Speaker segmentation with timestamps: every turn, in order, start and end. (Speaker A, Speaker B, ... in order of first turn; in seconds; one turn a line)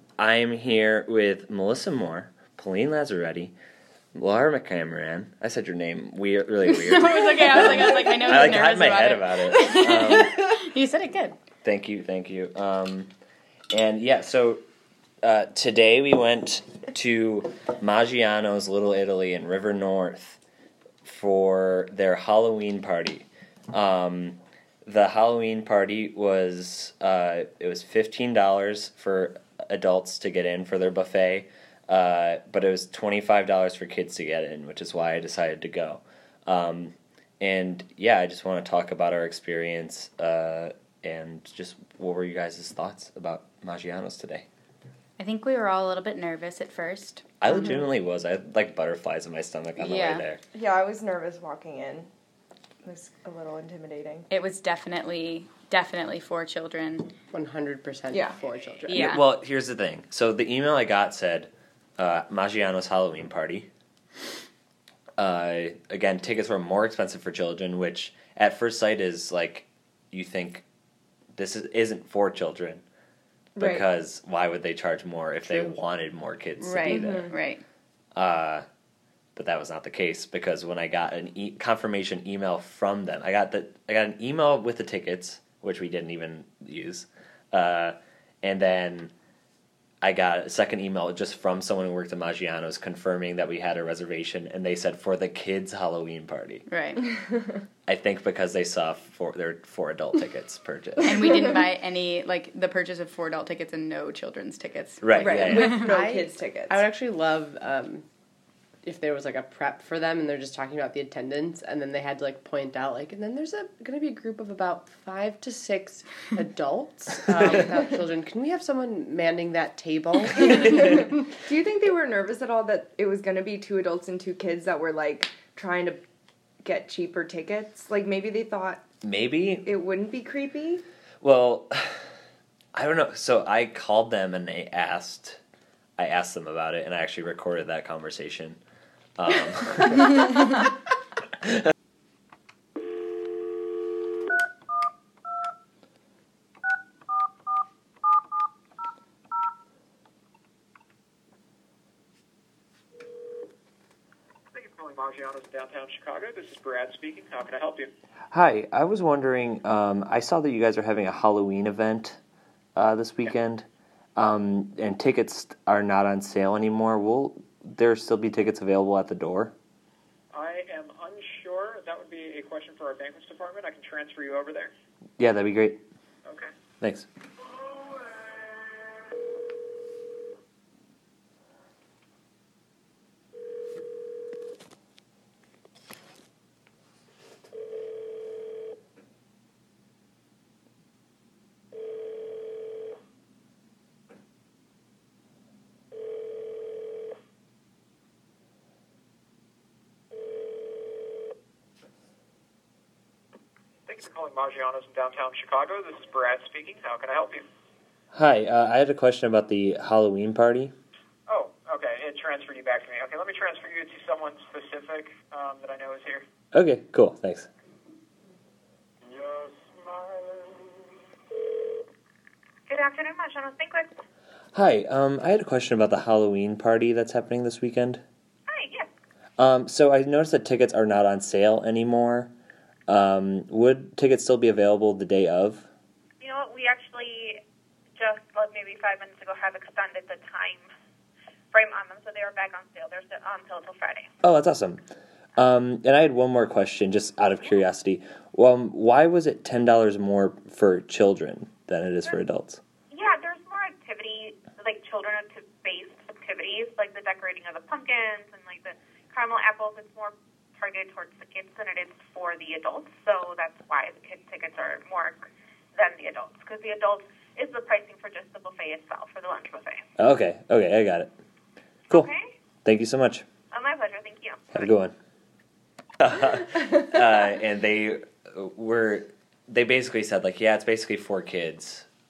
Speaker A: 0.2-3.5
Speaker A: 4.1-10.6
Speaker B: 6.6-11.4
Speaker A: 11.6-13.1
Speaker A: 13.7-14.6
Speaker A: 15.2-20.4
Speaker A: 21.0-44.5
Speaker B: 45.2-47.3
Speaker A: 47.4-50.4
Speaker B: 49.8-50.2
Speaker C: 50.5-52.1
Speaker C: 52.8-54.3
Speaker B: 54.3-57.1
Speaker D: 57.3-59.0
Speaker C: 58.1-58.4
Speaker B: 58.9-59.2
Speaker A: 58.9-63.7
Speaker A: 65.2-70.6
Speaker A: 71.3-72.8
Speaker C: 73.5-73.8
Speaker A: 73.6-77.3
Speaker B: 76.6-77.6
Speaker C: 76.9-77.3
Speaker A: 78.1-78.7
Speaker A: 79.3-89.1
Speaker A: 90.0-96.7
Speaker B: 96.7-97.0
Speaker A: 97.9-101.5
Speaker B: 101.0-105.9
Speaker A: 105.0-105.8
Speaker C: 105.1-106.8
Speaker D: 105.5-108.0
Speaker D: 108.8-121.2
Speaker C: 120.3-126.0
Speaker C: 126.6-128.8
Speaker A: 129.0-129.7
Speaker C: 129.6-130.8
Speaker A: 131.2-132.0
Speaker A: 132.7-135.4
Speaker A: 136.0-138.6
Speaker A: 139.2-140.5
Speaker E: 154.5-157.9
Speaker A: 158.3-162.2
Speaker A: 162.8-169.5
Speaker E: 170.3-174.7
Speaker A: 175.2-175.8
Speaker A: 176.8-177.1
Speaker E: 177.7-178.3
Speaker E: 203.8-207.4
Speaker A: 208.1-210.7
Speaker E: 211.3-216.2
Speaker A: 216.5-217.5
Speaker E: 219.0-220.7
Speaker F: 222.7-224.0
Speaker A: 224.5-228.0
Speaker F: 228.5-228.9
Speaker A: 229.4-232.3
Speaker A: 232.9-235.7
Speaker F: 236.2-237.4
Speaker F: 237.9-240.7
Speaker F: 241.5-244.1
Speaker A: 244.2-244.8
Speaker A: 245.3-252.6
Speaker F: 252.9-269.9
Speaker A: 270.0-271.1
Speaker F: 271.9-272.2
Speaker A: 272.6-273.2
Speaker F: 273.5-274.6
Speaker A: 274.5-274.9
Speaker A: 276.0-281.9